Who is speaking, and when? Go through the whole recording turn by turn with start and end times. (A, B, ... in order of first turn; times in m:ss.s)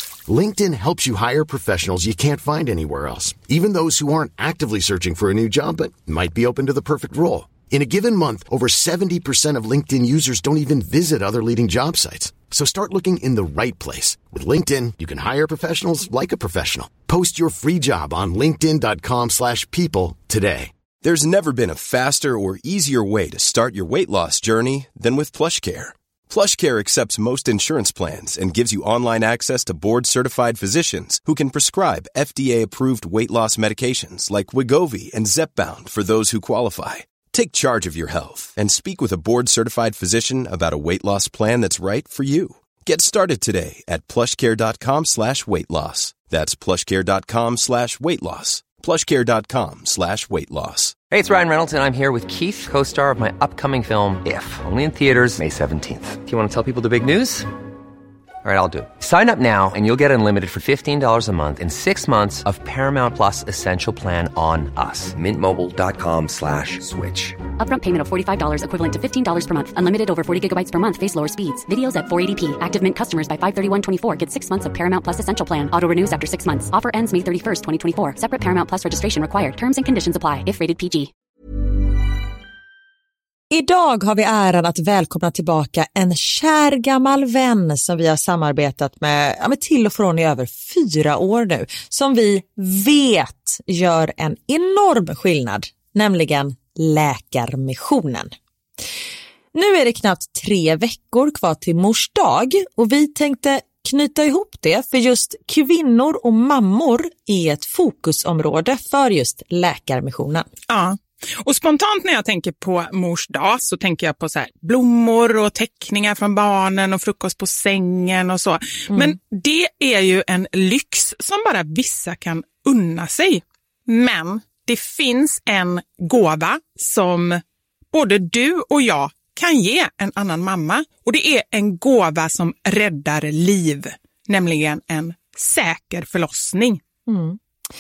0:00.3-0:20.7 A
0:21.0-0:51.0 B
0:51.1-0:57.5 C
0:58.4-1:07.4 C
1:07.6-1:21.1 D
1:23.5-1:38.3 E
1:39.5-1:50.5 E
1:50.7-2:07.4 F
2:07.9-2:16.8 F
2:17.1-2:17.4 E